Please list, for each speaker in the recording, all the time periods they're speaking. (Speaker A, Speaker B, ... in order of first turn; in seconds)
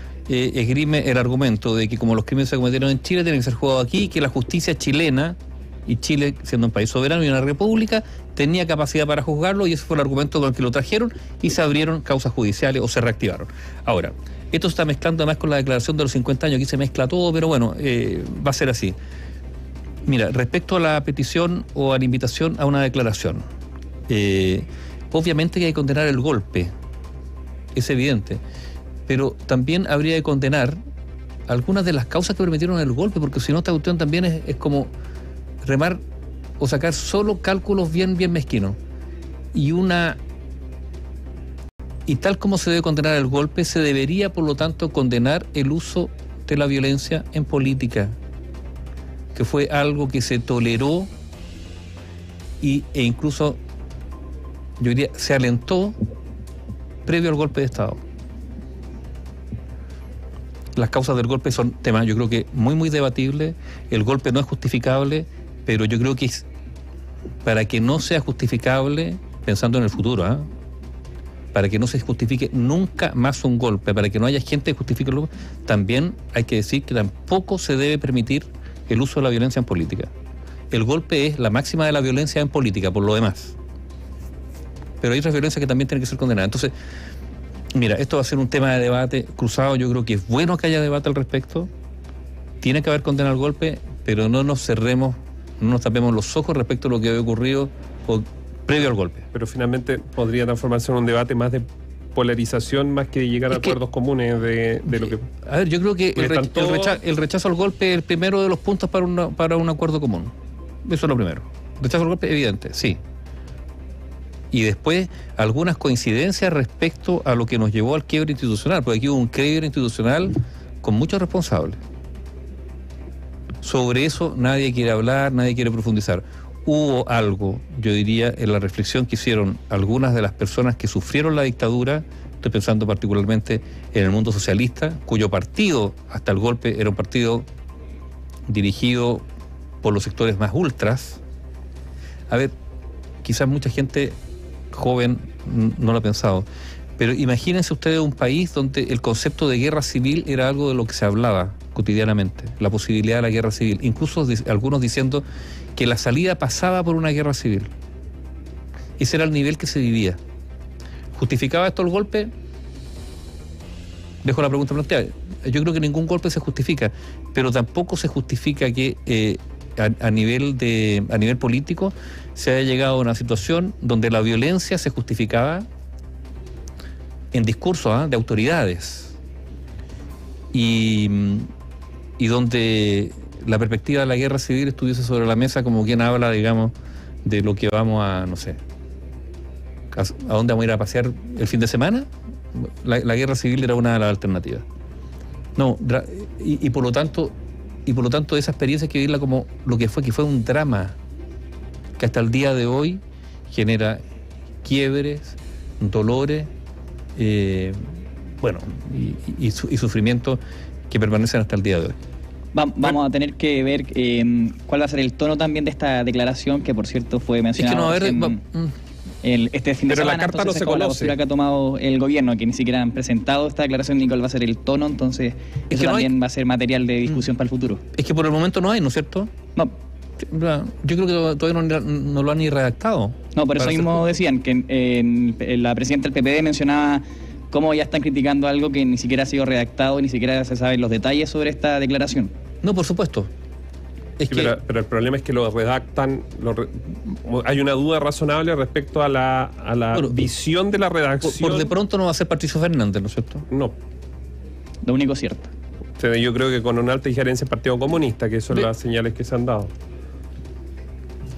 Speaker A: 0.3-18.9, 20.0-23.4, 24.1-26.7, 27.7-28.4, 29.1-30.8, 31.5-34.9, 35.6-36.0, 36.6-38.8, 39.5-40.2, 42.1-48.1, 49.3-51.1, 52.6-53.6, 54.8-55.9, 57.0-58.0, 60.8-66.5, 67.4-70.4, 71.5-80.1, 80.7-83.5, 85.0-86.7, 87.7-91.7, 92.6-99.2, 103.5-103.8, 104.9-110.3, 110.8-113.0, 114.5-121.8, 123.6-137.5, 138.5-139.2, 139.8-141.2, 143.2-144.2, 144.7-146.4, 147.0-155.2, 155.8-157.7, 159.0-160.2, 161.2-162.3, 164.2-175.6, 177.3-179.1, 180.5-181.4, 182.2-186.7, 187.2-188.6, 189.9-194.6, 195.6-197.3, 197.9-201.0, 202.0-204.0, 204.6-206.5, 207.2-207.8, 208.4-211.9, 217.5-218.7, 225.7-226.1, 227.9-229.3, 230.2-234.0, 242.6-243.3, 244.2-244.5, 251.2-253.4
Speaker B: 99.3-101.6, 102.1-105.2, 106.2-107.0, 219.9-221.1, 244.3-251.7, 256.0-259.7
Speaker C: 212.5-218.4, 219.2-227.8, 233.3-242.3, 254.8-255.5